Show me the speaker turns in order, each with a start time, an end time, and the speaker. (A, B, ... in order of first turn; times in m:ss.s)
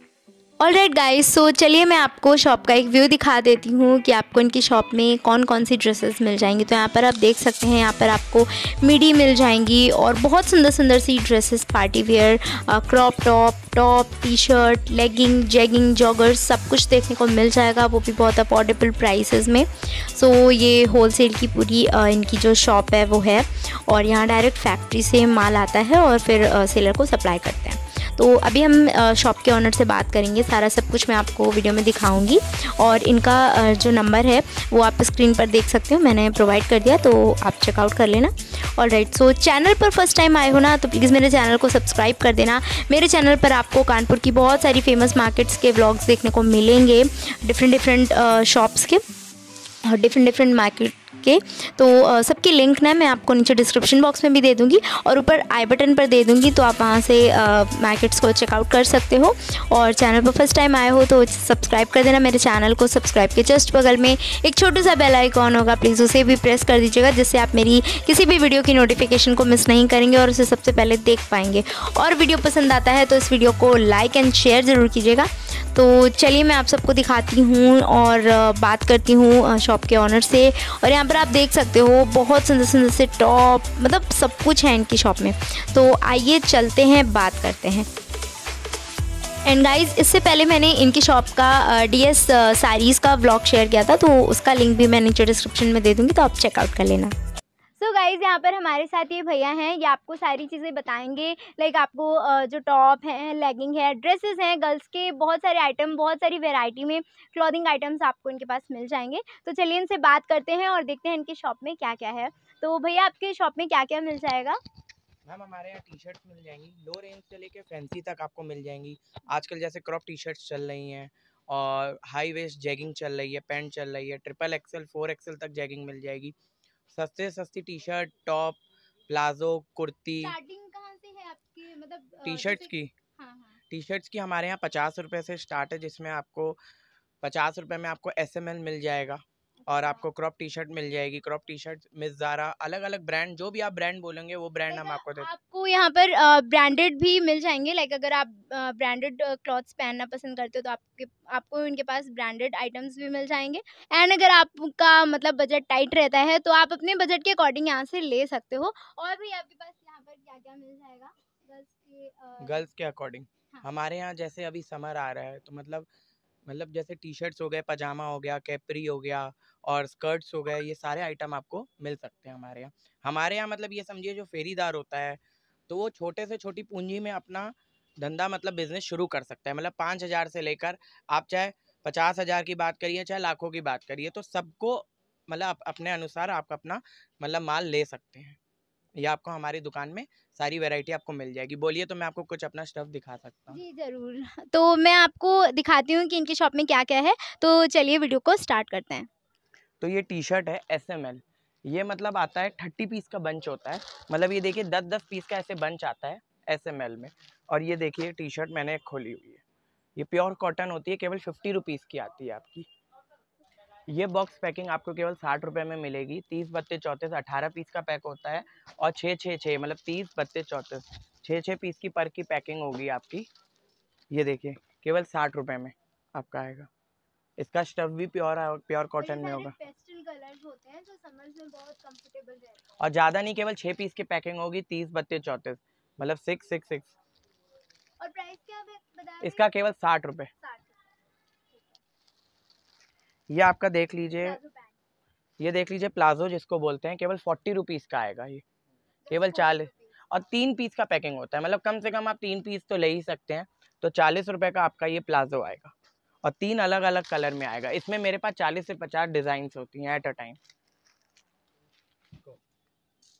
0:00.6-0:49.0 A
0:49.8-1:27.9 A
1:29.4-1:37.1 A
1:37.8-1:54.6 A
1:55.2-2:06.3 B
2:06.9-2:10.4 B
2:10.2-2:13.6 A
2:12.2-2:12.9 B
2:13.7-2:16.6 B
2:17.2-2:25.3 B
2:19.6-2:20.0 A
2:24.7-2:42.7 A
2:42.4-2:45.9 B
2:46.4-3:08.4 B
3:09.0-3:13.6 B
3:13.5-3:19.1 A
3:19.8-3:29.4 B
3:30.0-3:32.7 B
3:33.9-3:43.3 B
3:44.1-3:46.7 B
3:47.4-3:49.5 B
3:49.0-3:52.8 A
3:52.8-3:56.9 B
3:58.0-3:59.4 A
3:59.2-4:00.3 B
4:00.4-4:00.8 A
4:01.5-4:01.8 A
4:03.3-4:04.4 B
4:04.2-4:04.8 A
4:05.4-4:08.4 B
4:09.0-4:09.9 A
4:09.1-4:20.4 B